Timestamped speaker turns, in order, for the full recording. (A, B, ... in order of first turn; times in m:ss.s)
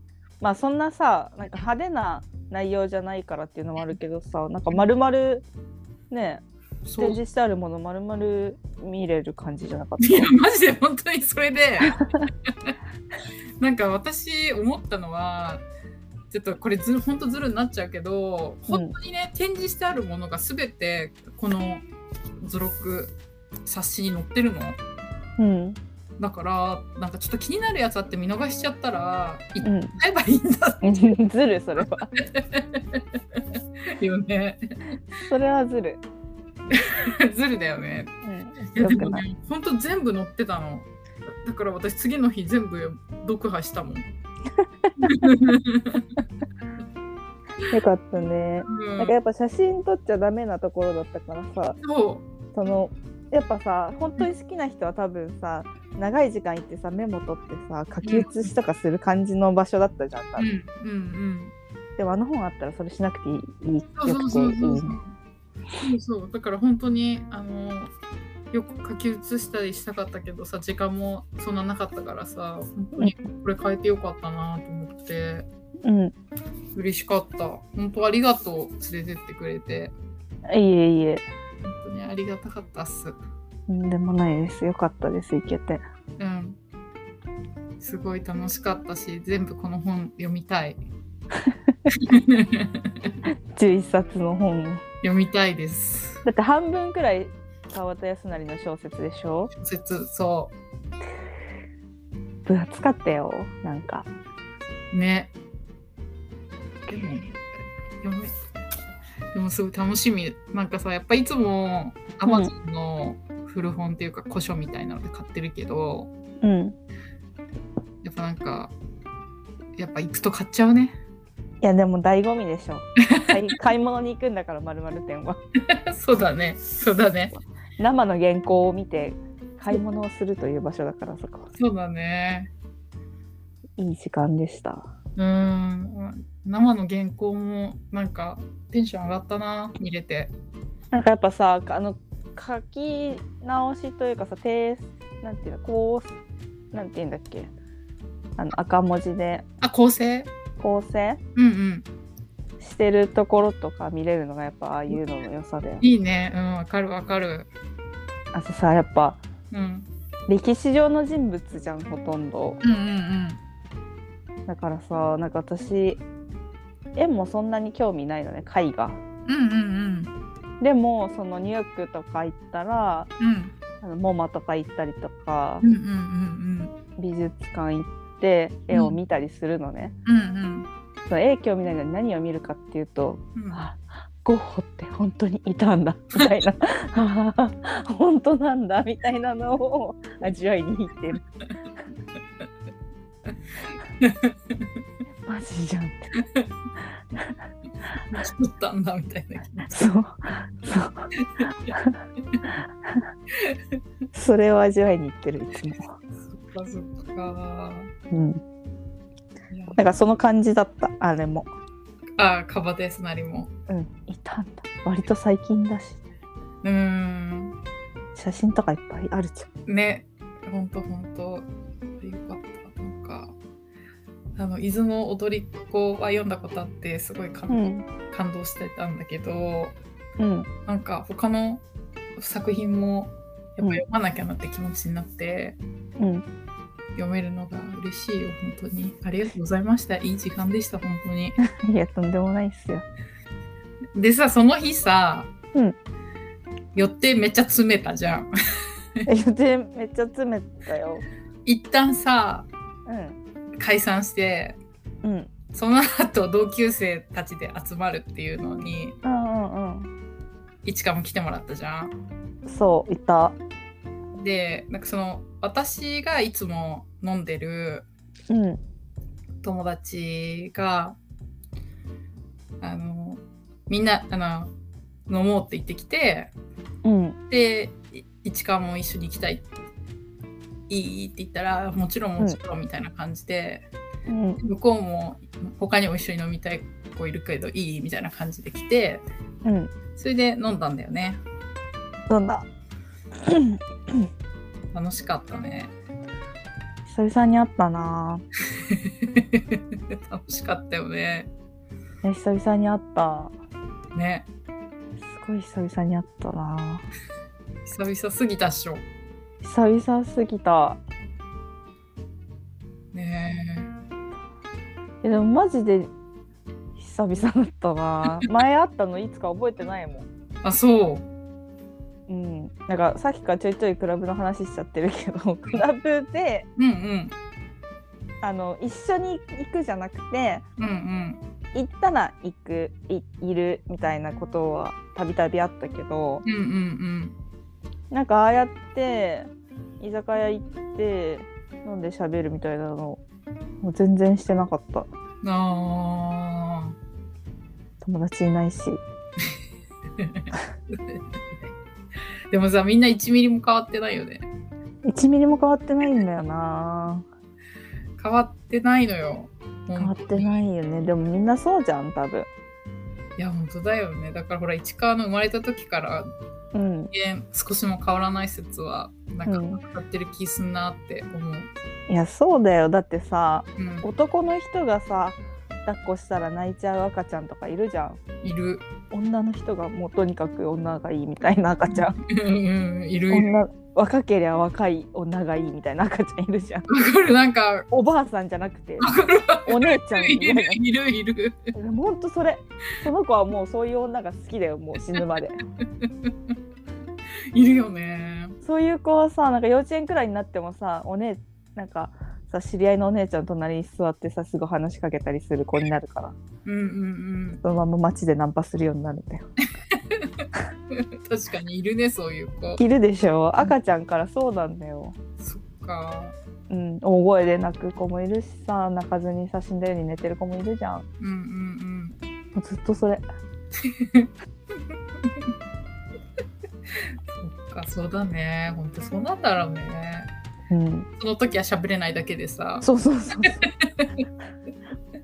0:00.4-0:05.4 A
0:06.1-0:06.4 A
0:06.8-0:07.2 B
0:07.0-0:10.3 A
0:10.0-0:12.7 B
0:12.0-0:12.3 A
0:13.6-0:15.6 B
0:16.3-0:21.8 B
0:22.4-0:24.8 B
0:25.4-0:25.8 A
0:26.2-0:31.0 B
0:29.6-0:29.9 A
0:30.8-0:32.1 A
0:32.2-0:33.0 B
0:33.9-0:34.8 B
0:35.3-0:36.0 A
0:36.7-0:38.1 B
0:38.2-0:39.2 A
0:38.7-0:44.1 B
0:44.8-0:45.3 A
0:45.0-0:46.1 B
0:47.7-0:51.8 A
0:48.6-0:49.1 B
0:51.8-0:52.2 B
0:52.5-1:00.5 A
0:58.0-0:58.5 B
1:00.4-1:01.5 B
1:02.0-1:05.0 A
1:04.0-1:05.1 B
1:05.8-1:07.9 B
1:08.5-1:15.5 B
1:15.8-1:16.1 A
1:16.7-1:19.9 B
1:20.5-1:21.2 A
1:21.6-1:23.2 B
1:23.7-1:25.8 A
1:26.2-1:26.6 B
1:27.8-1:30.8 B
1:31.9-1:33.1 B
1:33.5-1:34.8 A
1:35.0-1:36.2 B
1:36.2-1:39.5 A
1:39.6-1:40.5 B
1:42.4-1:44.1 A
1:44.9-1:45.3 B
1:46.9-1:47.4 B
1:48.0-1:48.3 B
1:49.3-1:56.1 B
1:56.4-1:56.8 A
1:58.0-1:58.7 B
1:59.8-2:01.0 B
2:01.6-2:05.4 A
2:05.7-2:07.3 B
2:07.8-2:11.5 A
2:11.5-2:12.5 B
2:13.8-2:14.9 A
2:15.2-2:20.3 B
2:20.9-2:26.2 A
2:26.7-2:27.5 A
2:28.4-2:29.4 A
2:29.6-2:30.3 B
2:30.6-2:31.2 A
2:31.4-2:31.9 B
2:32.6-2:35.8 A
2:35.8-2:37.5 B
2:38.3-2:39.2 A
2:39.5-2:39.9 B
2:40.3-2:42.6 A
2:42.6-2:43.4 B
2:44.4-2:46.0 A
2:47.0-2:49.0 A
2:49.2-2:50.1 B
2:50.6-2:53.1 A
2:53.2-2:53.5 B
2:53.8-2:55.6 A
2:55.6-2:56.7 B
2:57.0-3:00.0 A
2:58.7-2:59.0 B
3:00.0-3:00.7 B
3:01.1-3:11.2 A
3:03.4-3:03.6 B
3:14.0-3:14.6 B
3:15.2-3:16.1 A
3:18.0-3:19.8 B
3:19.7-3:21.1 A
3:21.2-3:21.5 B
3:21.7-3:22.0 A
3:23.4-3:23.8 B
3:24.1-3:25.9 A
3:26.2-3:27.9 B
3:28.1-3:28.4 A
3:29.5-3:29.8 B
3:29.7-3:31.5 A
3:32.2-3:33.5 B
3:33.7-3:36.0 A
3:36.6-3:37.6 B
3:38.1-3:39.5 A
3:39.7-3:43.3 B
3:44.4-3:49.8 B
3:47.5-3:47.8 A
3:50.2-3:50.5 A
3:50.7-3:51.6 B
3:52.2-3:55.6 B
3:56.0-3:56.2 A
3:56.9-4:01.4 B
4:01.5-4:02.8 A
4:03.9-4:05.3 B
4:06.7-4:08.3 B
4:09.0-4:11.0 A
4:11.4-4:12.5 B
4:12.8-4:13.2 A
4:13.6-4:14.6 B
4:15.0-4:15.3 A
4:15.5-4:19.0 B
4:19.0-4:19.9 A
4:20.6-4:22.0 B
4:22.4-4:23.4 A
4:24.1-4:27.9 B
4:28.3-4:28.6 A
4:29.4-4:31.0 B
4:32.6-4:34.5 B
4:35.1-4:36.3 B
4:36.8-4:37.2 A
4:37.3-4:39.4 B
4:40.7-4:43.6 B
4:44.1-4:44.4 A
4:44.4-4:49.0 B
4:49.4-4:49.7 A
4:49.9-4:51.2 B
4:52.1-4:52.4 A
4:53.2-4:54.1 A
4:54.7-4:55.7 B
4:56.9-4:58.2 A
4:58.6-5:01.3 B
5:02.0-5:03.3 A
5:03.9-5:04.3 B
5:05.0-5:06.8 A
5:07.6-5:08.8 B
5:09.4-5:10.8 A
5:12.9-5:13.7 B
5:15.0-5:15.9 A
5:16.8-5:20.0 A
5:20.4-5:21.0 B
5:22.1-5:26.5 A
5:26.6-5:27.1 B
5:28.2-5:30.4 A
5:30.6-5:31.2 B
5:31.5-5:36.2 A
5:36.2-5:37.2 B
5:37.9-5:39.3 A
5:39.8-5:43.0 A
5:43.6-5:44.9 A
5:45.2-5:46.8 B
5:47.8-5:48.8 A
5:50.0-5:51.5 B
5:52.3-5:54.3 B
5:54.8-5:57.0 A
5:58.0-6:00.4 B
5:59.7-6:02.3 A
6:03.2-6:06.1 B
6:06.5-6:06.9 A
6:06.9-6:11.5 B
6:09.2-6:09.6 A
6:11.9-6:18.0 A
6:13.6-6:13.8 B
6:18.2-6:18.6 B
6:18.9-6:22.0 A
6:21.7-6:23.3 B
6:23.1-6:26.7 A
6:26.7-6:27.6 B
6:27.7-6:28.9 A
6:28.8-6:31.5 B
6:29.4-6:30.6 A
6:31.5-6:35.4 A
6:35.6-6:36.3 B
6:37.3-6:38.4 B
6:38.4-6:46.2 A
6:46.4-6:47.4 B
6:47.4-6:49.3 A
6:49.7-6:52.6 B
6:52.6-6:55.0 A
6:55.2-6:56.1 B
6:56.5-7:00.8 A
7:01.0-7:02.0 B
7:02.3-7:03.0 A
7:03.6-7:04.1 B
7:04.7-7:05.3 B
7:07.0-7:10.1 B
7:10.5-7:10.9 A
7:11.0-7:12.7 B
7:12.6-7:13.4 A
7:13.3-7:14.0 B